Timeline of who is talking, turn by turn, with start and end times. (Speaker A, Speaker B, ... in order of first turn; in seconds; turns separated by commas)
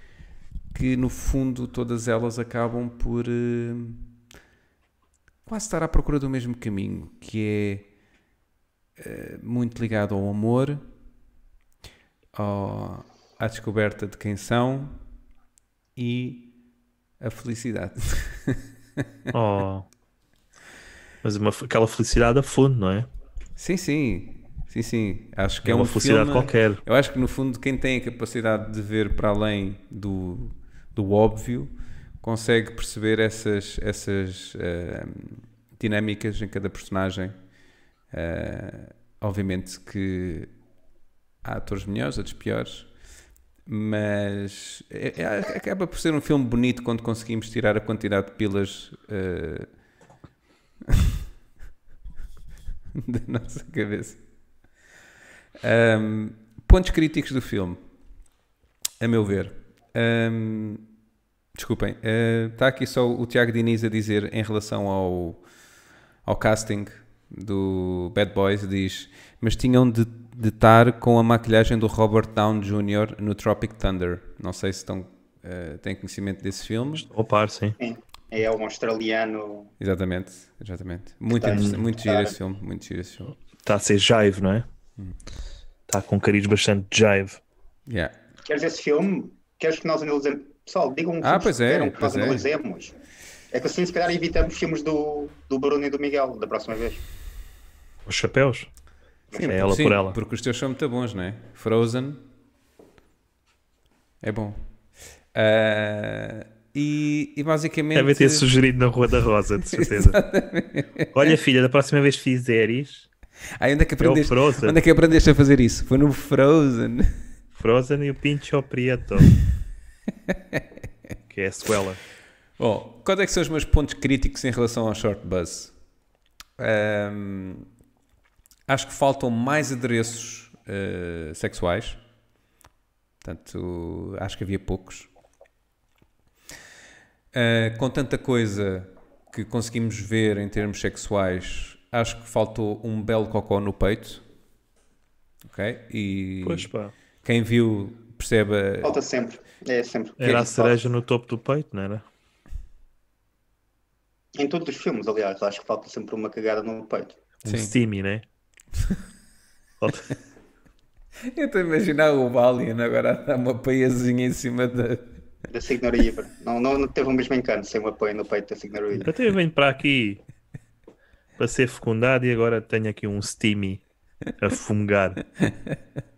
Speaker A: 0.7-4.1, Speaker A: 5.5-7.8, Speaker A: 9.0-10.8, Speaker A: 12.3-15.0, Speaker A: 15.9-16.5, Speaker A: 17.2-19.0, Speaker B: 19.3-19.9, Speaker B: 21.2-23.1, Speaker A: 23.6-37.3, Speaker B: 25.6-26.8, Speaker A: 38.1-40.5, Speaker A: 41.4-42.9, Speaker A: 43.6-49.7, Speaker A: 52.9-54.2, Speaker A: 55.6-57.8, Speaker A: 59.0-60.9, Speaker A: 61.5-65.4, Speaker A: 66.2-77.0, Speaker B: 76.9-77.8, Speaker C: 77.8-79.7, Speaker A: 79.8-83.4, Speaker C: 81.3-82.3, Speaker B: 81.5-81.8, Speaker B: 83.6-84.7, Speaker B: 85.9-87.4, Speaker A: 87.9-88.1, Speaker C: 88.4-92.9, Speaker A: 91.2-92.5, Speaker C: 93.5-97.0, Speaker B: 98.0-98.7, Speaker A: 99.3-102.2, Speaker B: 99.5-100.2, Speaker A: 104.2-104.6, Speaker A: 105.3-108.5, Speaker B: 107.9-110.2, Speaker A: 109.6-111.3, Speaker B: 111.1-113.1, Speaker A: 113.6-117.2, Speaker B: 114.0-114.8, Speaker B: 117.5-119.3, Speaker A: 120.3-120.6, Speaker B: 121.3-122.0, Speaker A: 122.6-125.7, Speaker A: 126.6-127.7, Speaker A: 128.7-132.0, Speaker A: 133.2-135.1, Speaker A: 137.3-144.2, Speaker A: 145.4-146.7, Speaker B: 146.4-146.9, Speaker A: 147.2-149.0, Speaker C: 148.8-150.8, Speaker B: 150.2-152.0, Speaker C: 154.3-157.2, Speaker B: 157.4-158.2, Speaker A: 157.4-157.7, Speaker B: 159.8-160.1, Speaker A: 161.2-165.2, Speaker C: 165.5-169.1, Speaker B: 169.0-170.2, Speaker B: 171.4-173.8, Speaker B: 174.4-175.2